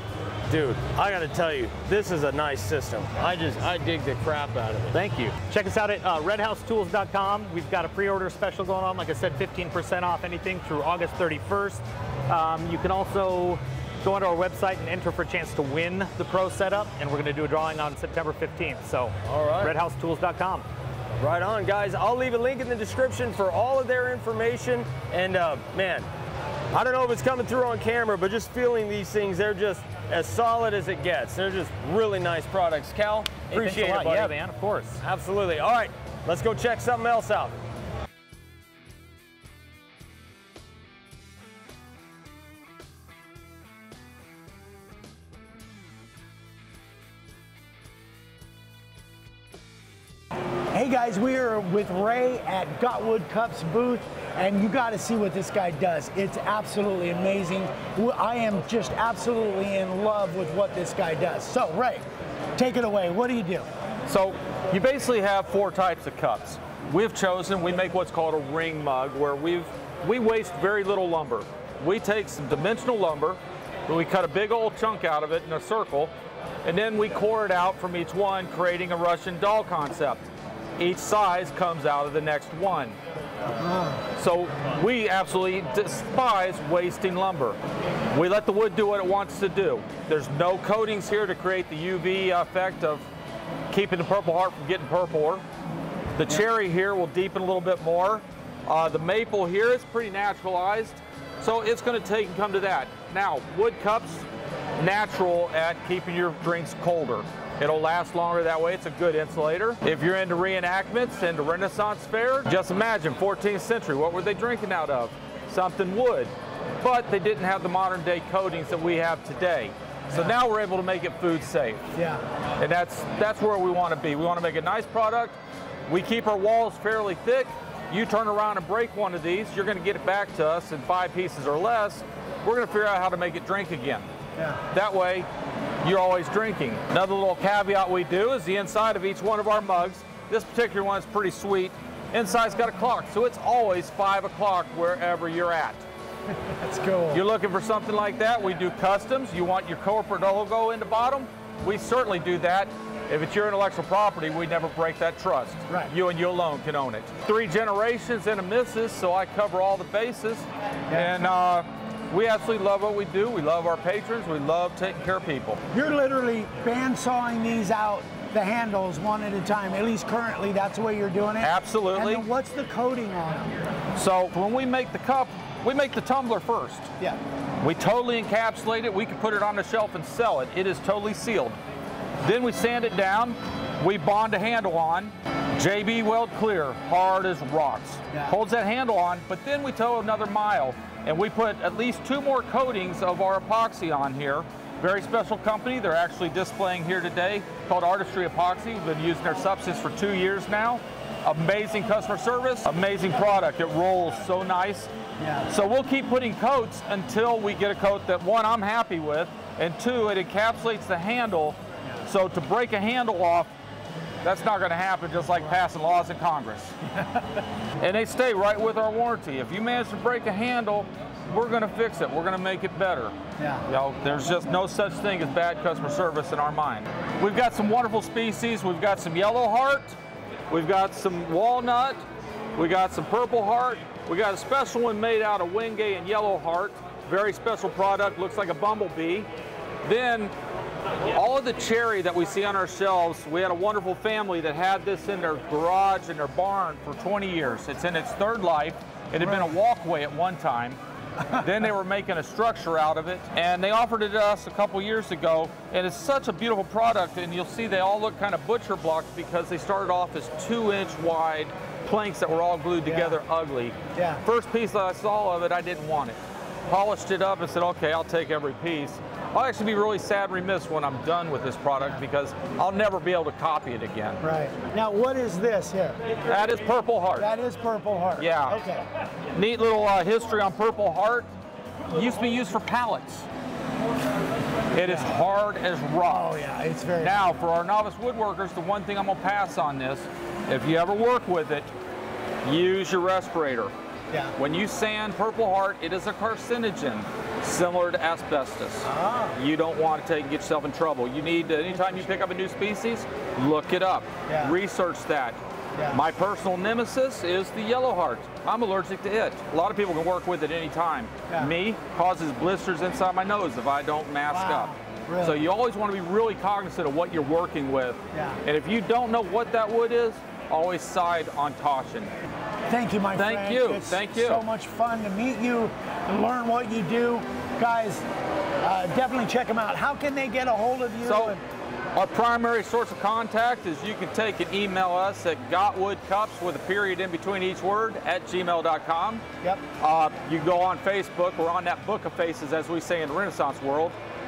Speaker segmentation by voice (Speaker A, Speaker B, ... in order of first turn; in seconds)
Speaker A: 0.5-5.0, 19.2-19.7, 21.2-26.1, 26.7-34.3, 35.0-37.6
Speaker B: 4.9-20.6, 33.5-35.0
Speaker C: 50.7-62.0, 62.5-63.7, 83.6-84.0, 122.0-122.2, 146.6-147.2, 165.7-173.5, 205.2-205.5, 223.4-223.6, 249.2-249.5, 262.8-263.2, 263.9-264.2, 274.2-276.2, 277.2-278.8, 284.8-285.1, 286.1-287.1, 298.9-299.4, 304.3-304.5, 314.3-315.4, 318.1-318.4, 322.7-328.0, 328.6-331.4
Speaker D: 64.0-76.1, 76.6-80.2, 80.8-83.0, 84.2-87.6, 88.1-93.0, 93.7-95.4, 96.2-104.2, 104.8-121.8, 122.6-125.3, 125.9-134.1, 134.7-135.3, 135.8-145.8, 147.1-165.6, 171.4-172.2, 173.9-176.9, 177.6-181.6, 182.2-204.9, 205.5-213.5, 214.2-216.8, 217.8-223.1, 223.7-229.9, 230.5-232.0, 232.6-239.3, 239.8-240.3, 241.1-250.8, 251.3-274.2, 276.2-277.3, 278.2-278.6, 279.3-281.3, 281.9-283.3, 284.7-286.4, 287.0-291.7, 292.4-293.7, 294.4-305.4, 305.9-322.1, 323.1-324.4, 331.0-331.4, 331.9-339.2, 339.8-343.9